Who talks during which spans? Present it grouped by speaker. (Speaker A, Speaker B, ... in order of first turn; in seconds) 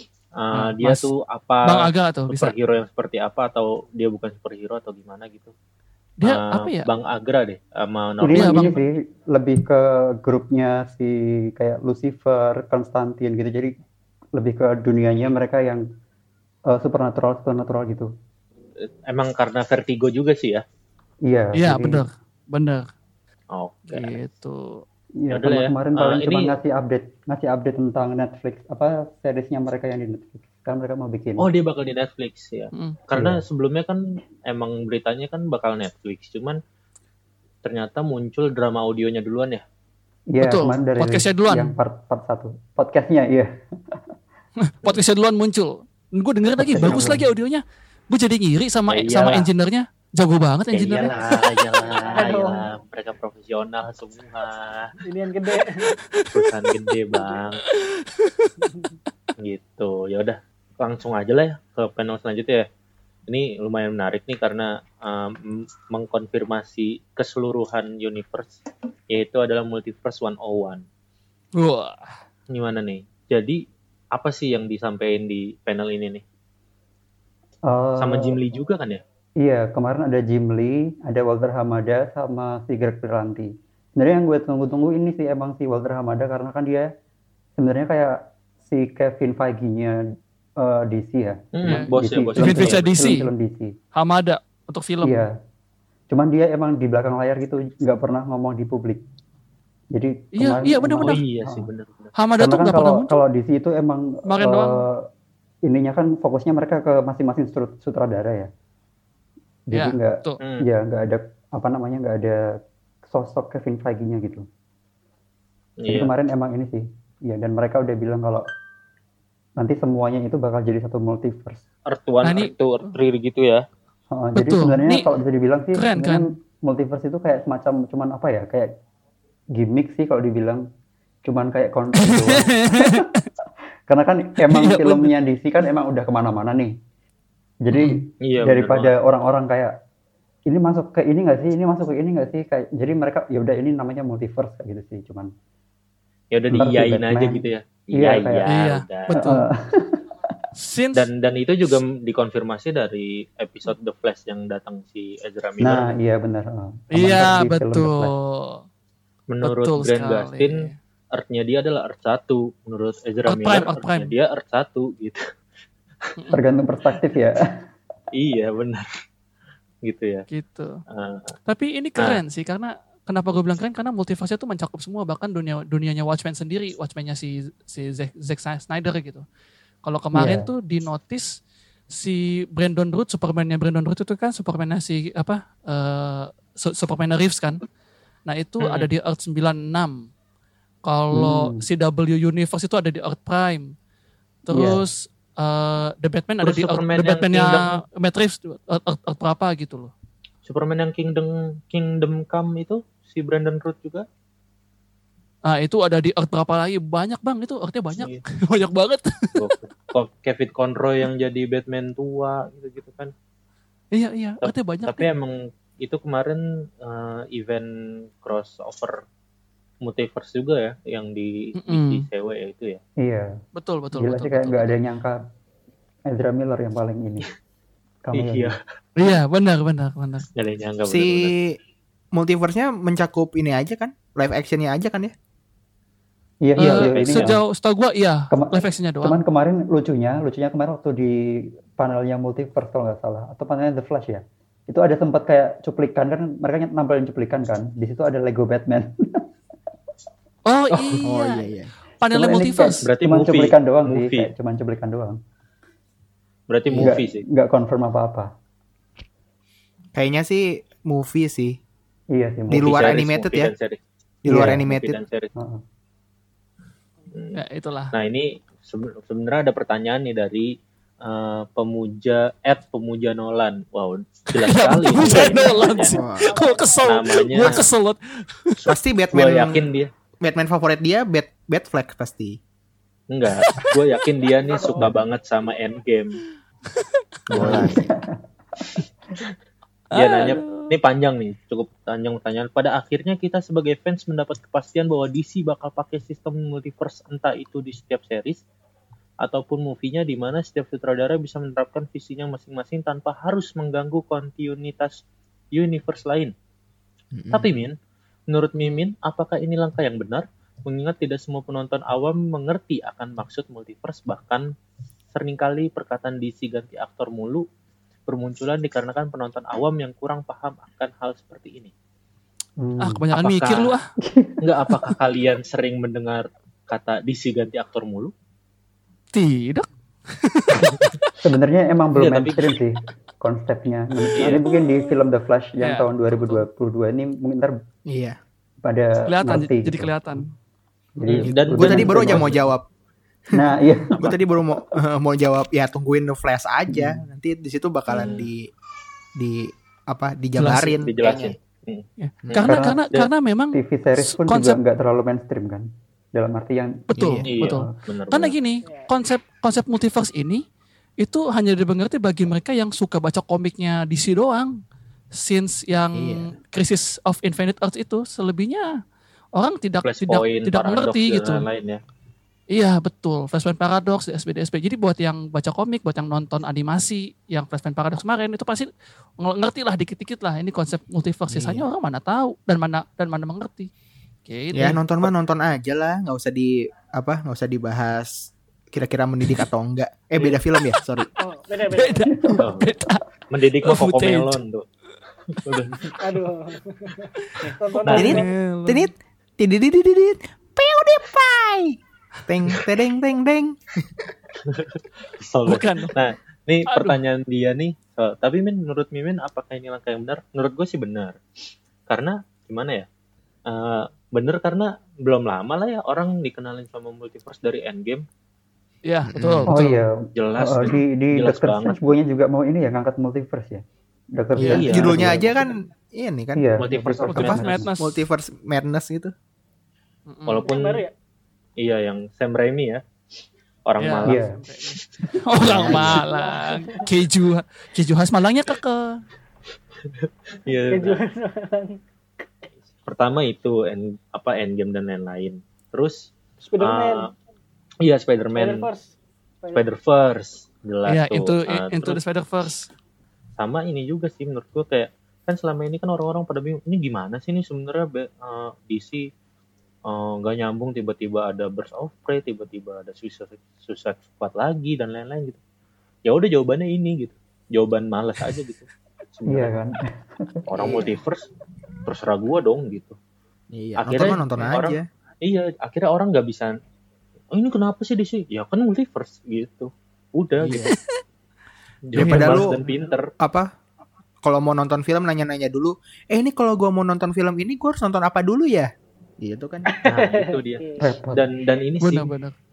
Speaker A: 0.4-5.5, 6.2-8.8, 19.1-20.6, 23.5-24.1, 25.3-26.6, 31.4-36.6, 37.6-39.6, 46.9-47.1, 48.9-49.5, 50.7-55.0, 56.3-57.6, 59.4-62.7, 63.3-68.6, 69.1-70.8, 72.5-73.6, 74.1-76.2, 78.0-79.0, 91.5-93.0, 101.0-102.1, 110.4-110.7, 115.8-116.1, 121.9-123.7, 138.3-138.9, 146.3-149.2, 150.9-155.9, 159.3-165.2, 168.1-168.9, 169.9-170.2, 170.9-171.4, 188.6-188.9, 196.4-197.8, 200.4-204.1, 209.3-213.1, 214.4-217.7, 218.2-219.0, 219.8-222.8, 228.1-229.2, 230.4-231.3, 236.6-237.4, 250.7-251.1, 252.8-254.3, 256.5-257.2, 262.6-265.3, 267.1-267.4, 267.9-276.0, 276.8-277.6, 278.6-279.9, 283.1-286.2, 287.3-287.8, 289.9-298.4, 299.2-305.0, 305.5-306.3, 307.3-307.8, 308.3-314.5, 315.1-317.4, 318.1-321.7, 323.2-323.8, 324.4-328.1, 330.6-330.9, 331.9-332.6, 334.2-334.4, 341.1-342.4, 347.9-348.3, 350.9-353.1, 357.2-358.4, 369.9-371.8, 392.4-392.7, 393.3-394.7, 395.3-395.9, 397.8-398.2, 404.4-411.2, 411.9-412.9, 413.5-418.0, 420.2-422.0, 424.4-425.2, 426.6-427.7, 430.3-430.9, 431.6-432.8, 433.7-435.0, 439.9-441.0, 442.9-447.1, 447.8-448.7, 449.5-452.0, 453.4-459.1, 459.9-465.4, 466.1-469.5, 470.5-471.3, 471.9-473.0, 473.8-476.6, 477.3-480.6, 481.9-483.1, 489.9-492.1
Speaker B: 0.6-1.1, 1.6-2.5, 6.2-6.9, 8.4-8.8, 21.6-22.9, 23.9-24.8, 40.4-41.7, 44.6-51.2, 57.7-58.5, 71.6-72.1, 91.7-93.3, 94.0-95.2, 100.4-101.2, 102.2-103.2, 104.3-104.8, 109.7-110.4, 122.2-122.5, 124.3-125.1, 125.8-126.3, 132.0-133.2, 134.5-135.1, 137.7-138.0, 148.5-149.4, 150.6-151.1, 156.9-158.6, 159.4-160.8, 163.3-164.1, 170.3-170.8, 171.5-179.2, 179.8-181.3, 181.9-187.6, 188.3-189.9, 190.9-193.7, 194.5-199.9, 205.5-209.4, 213.9-215.1, 221.6-222.1, 223.6-224.8, 229.0-230.3, 236.6-239.2, 250.5-251.5, 252.0-252.9, 267.4-267.9, 274.3-278.6, 289.9-290.7, 322.8-323.9, 329.1-331.1, 334.4-335.0, 335.6-336.5, 339.1-340.3, 350.4-350.8, 352.0-354.6, 356.9-360.4, 361.0-364.5, 365.2-368.8, 369.4-371.4, 372.5-378.7, 379.2-383.7, 384.3-385.1, 391.7-393.0, 393.6-394.4, 397.3-398.9, 405.5-405.9, 406.7-407.0, 418.9-419.8, 427.1-428.0, 430.1-430.5, 433.8-438.9, 450.9-452.7, 481.9-482.5, 491.8-492.4
Speaker C: 8.2-13.7, 14.3-15.8, 16.7-18.1, 21.3-22.0, 25.2-31.5, 33.1-33.4, 40.3-44.0, 46.6-47.2, 77.7-78.4, 79.4-86.9, 87.6-90.0, 90.6-93.7, 95.0-95.3, 96.1-99.0, 99.9-101.7, 102.4-105.0, 105.7-108.5, 109.7-112.4, 113.1-114.5, 115.9-118.5, 119.6-121.6, 124.1-128.7, 129.5-130.7, 131.2-133.1, 133.9-136.8, 137.6-139.7, 140.5-145.3, 146.5-147.4, 148.0-148.4, 149.1-150.3, 155.6-158.1, 166.3-167.4, 191.1-191.6, 194.5-194.8, 223.0-223.3, 224.0-225.2, 226.1-227.3, 228.1-228.6, 236.4-237.4, 238.3-249.3, 252.1-255.2, 256.8-258.3, 262.1-262.8, 264.3-264.7, 265.4-265.6, 287.3-288.2, 322.6-323.0, 324.1-324.8, 331.2-337.6, 338.6-340.3, 341.0-342.4, 343.3-344.0, 346.7-347.0, 352.4-352.8, 353.5-357.7, 392.2-392.4, 419.5-423.6, 424.1-425.4, 426.4-427.7, 434.1-434.4, 469.3-470.9, 490.8-491.2
Speaker D: 51.9-52.7, 55.0-56.0, 274.9-277.0, 284.4-284.9, 391.2-392.1, 396.0-398.3, 430.4-430.9, 435.7-436.9, 440.7-441.8, 446.4-447.1, 448.4-449.7, 489.7-490.9
Speaker E: 180.1-180.5, 230.9-231.6, 232.1-235.1, 251.1-251.7, 256.7-256.9, 259.9-261.6, 262.5-263.5, 264.2-265.0, 275.9-276.3, 278.7-279.7, 280.2-282.4, 287.3-287.9, 307.1-307.5, 337.9-338.2, 341.2-342.7, 343.3-348.5, 349.2-351.4, 356.9-357.2, 365.9-366.4, 381.3-381.7, 384.5-391.1, 397.9-403.6, 419.1-419.6, 424.4-429.1, 435.4-436.0, 473.5-474.8, 480.4-480.8, 481.9-482.6, 483.2-483.5, 484.2-489.8